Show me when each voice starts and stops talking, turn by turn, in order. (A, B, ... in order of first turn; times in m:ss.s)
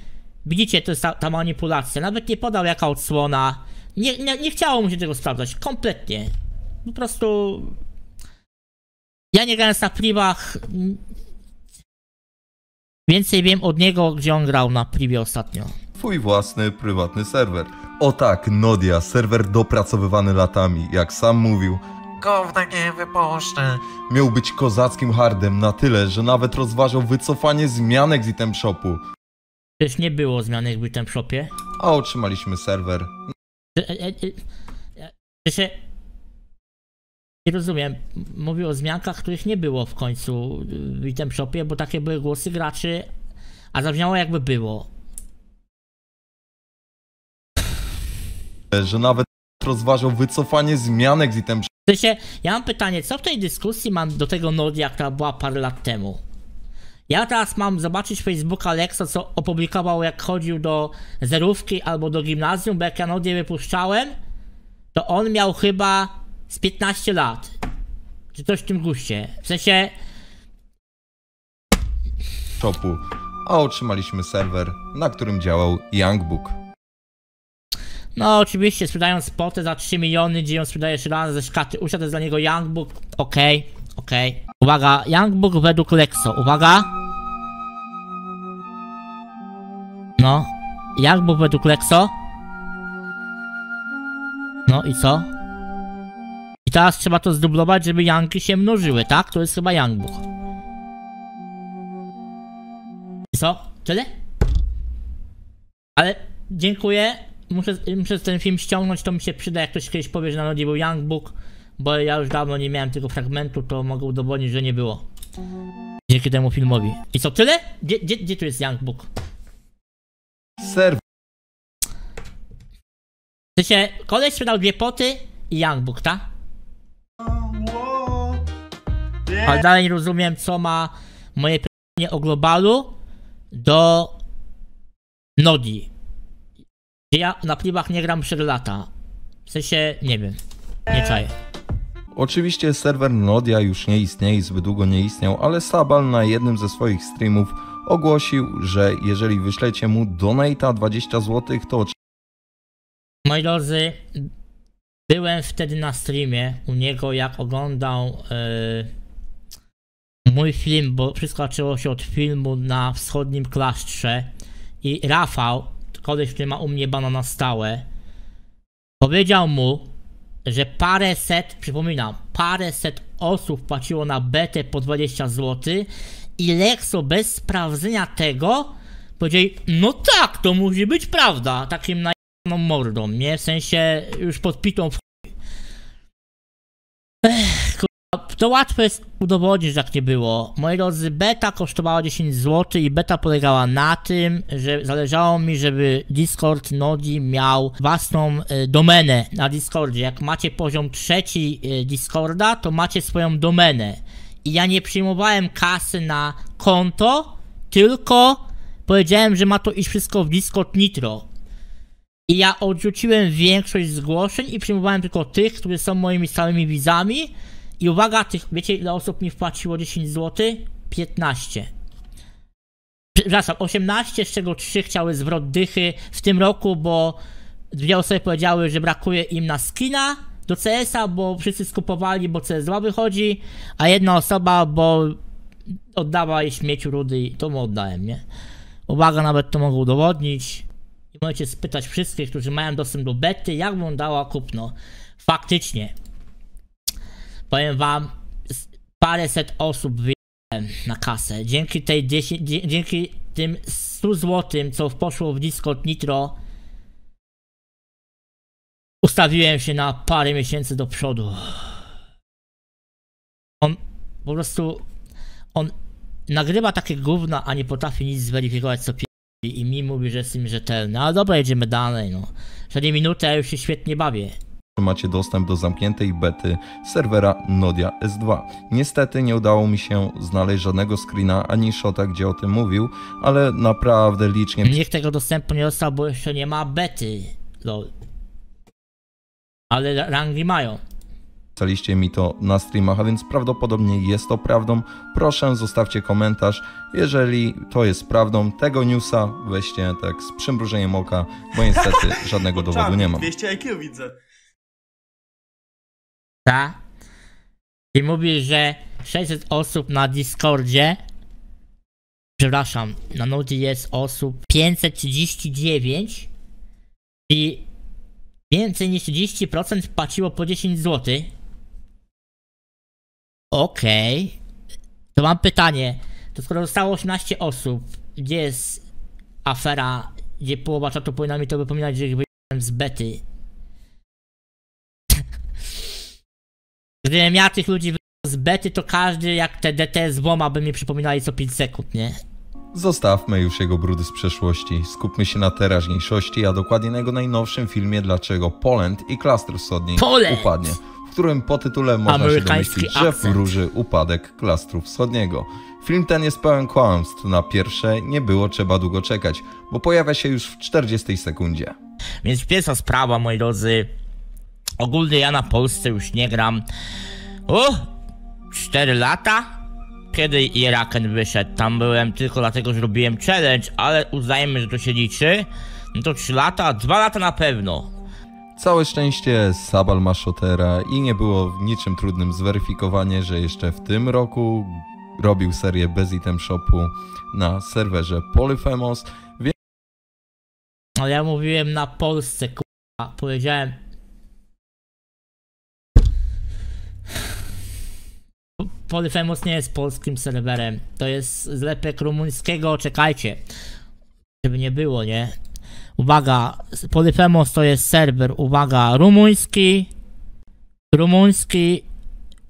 0:00.4-0:06.3 A
0:06.8-0:07.8 A
0:09.3-0:11.0 A
0:13.1-0:15.7 A
0:16.0-0:29.0 B
0:29.8-0:31.5 A
0:31.8-0:33.2 B
0:33.8-0:34.4 A
0:35.0-0:35.8 A
0:37.4-0:43.1 A
0:43.7-0:44.9 A
0:48.7-0:51.7 B
0:51.9-0:56.2 A
0:57.1-1:04.1 A
1:04.9-1:07.6 A
1:08.3-1:09.9 A
1:12.6-1:16.6 B
1:18.2-1:26.9 A
1:30.2-1:32.1 A
1:34.7-1:35.3 A
1:36.6-1:40.2 A
1:43.3-1:44.1 A
1:46.0-1:55.0 A
1:56.1-1:59.1 A
2:00.6-2:01.0 B
2:03.6-2:06.3 A
2:07.2-2:08.4 C
2:09.3-2:09.6 C
2:09.4-2:12.9 A
2:13.5-2:14.1 A
2:15.4-2:15.9 A
2:17.1-2:18.9 A
2:19.5-2:20.4 A
2:20.9-2:21.3 A
2:22.1-2:32.0 B
2:33.2-2:34.3 A
2:35.1-2:38.9 A
2:40.2-2:44.3 A
2:44.8-2:47.8 A
2:49.0-2:49.9 A
2:50.4-3:05.1 A
3:07.2-3:31.2 A
3:32.3-3:41.7 A
3:43.2-3:47.2 A
3:47.7-3:55.2 A
3:55.9-3:58.2 A
3:58.9-4:05.9 A
4:07.5-4:08.1 A
4:09.0-4:16.4 A
4:19.0-4:21.8 A
4:23.6-4:24.8 A
4:26.3-4:34.4 A
4:34.8-4:44.8 B
4:44.6-4:47.9 A
4:49.7-4:50.8 A
4:51.6-5:03.3 B
5:01.7-5:04.1 C
5:06.4-5:06.8 A
5:07.9-5:11.0 A
5:12.4-5:16.3 A
5:17.3-5:17.6 A
5:18.5-5:21.3 A
5:23.5-5:24.4 A
5:25.1-5:28.8 A
5:29.4-5:33.2 A
5:37.0-5:42.2 A
5:42.7-6:01.8 B
5:50.0-5:50.7 A
5:52.0-5:53.4 A
6:02.2-6:03.9 A
6:04.8-6:06.6 A
6:07.5-6:07.8 A
6:08.5-6:09.5 A
6:10.1-6:17.9 A
6:18.6-6:29.6 B
6:31.0-6:33.8 A
6:38.6-6:43.4 A
6:44.4-6:45.3 A
6:46.0-6:49.9 A
6:50.9-6:51.8 A